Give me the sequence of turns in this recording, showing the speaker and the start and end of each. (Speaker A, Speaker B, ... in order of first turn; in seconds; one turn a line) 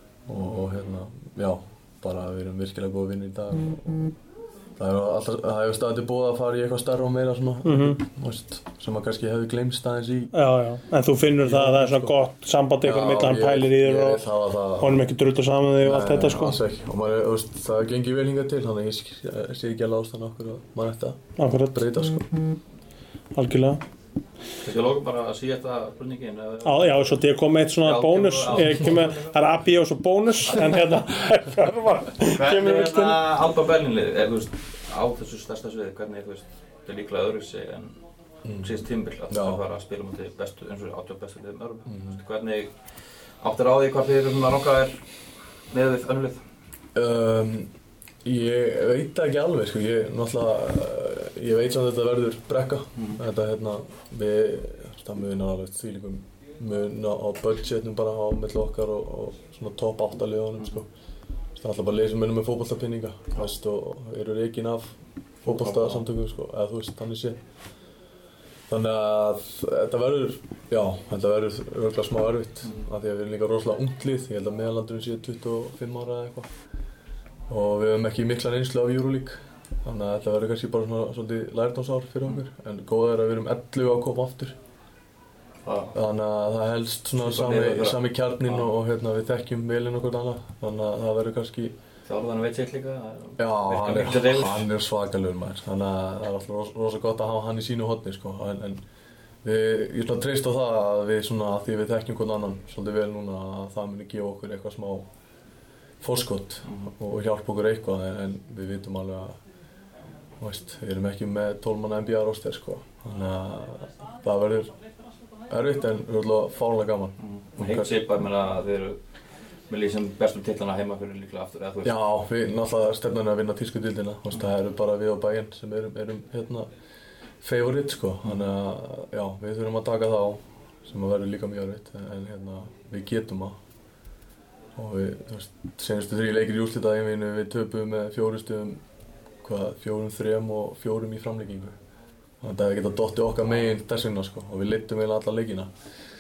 Speaker A: 0.3-4.1
Speaker A: 4.8-10.3
Speaker B: 7.6-8.0
Speaker B: 10.3-14.2
Speaker A: 11.4-12.2
Speaker A: 12.8-15.0
Speaker B: 14.8-16.6
Speaker A: 15.8-22.3
Speaker B: 21.4-21.8
Speaker B: 23.4-23.8
Speaker C: 24.6-27.2
Speaker B: 26.6-33.2
Speaker C: 27.8-29.4
Speaker C: 30.5-30.9
Speaker C: 32.2-38.0
Speaker A: 38.5-38.8
Speaker C: 38.6-42.7
Speaker A: 39.3-39.6
Speaker A: 41.9-42.2
Speaker C: 43.4-45.0
Speaker C: 45.7-46.4
Speaker A: 47.0-47.7
Speaker A: 48.2-60.9
Speaker A: 61.6-67.4
Speaker C: 65.5-66.0
Speaker A: 68.7-76.5
Speaker A: 77.5-84.6
Speaker C: 85.7-85.9
Speaker A: 85.9-91.8
Speaker C: 87.2-88.7
Speaker C: 92.1-94.7
Speaker A: 93.4-98.8
Speaker A: 99.4-105.1
Speaker A: 106.0-109.4
Speaker A: 110.4-114.7
Speaker A: 115.5-117.9
Speaker C: 117.2-119.0
Speaker C: 119.7-121.9
Speaker A: 121.8-126.7
Speaker A: 127.4-133.6
Speaker A: 134.8-138.8
Speaker A: 139.4-141.8
Speaker A: 142.4-145.7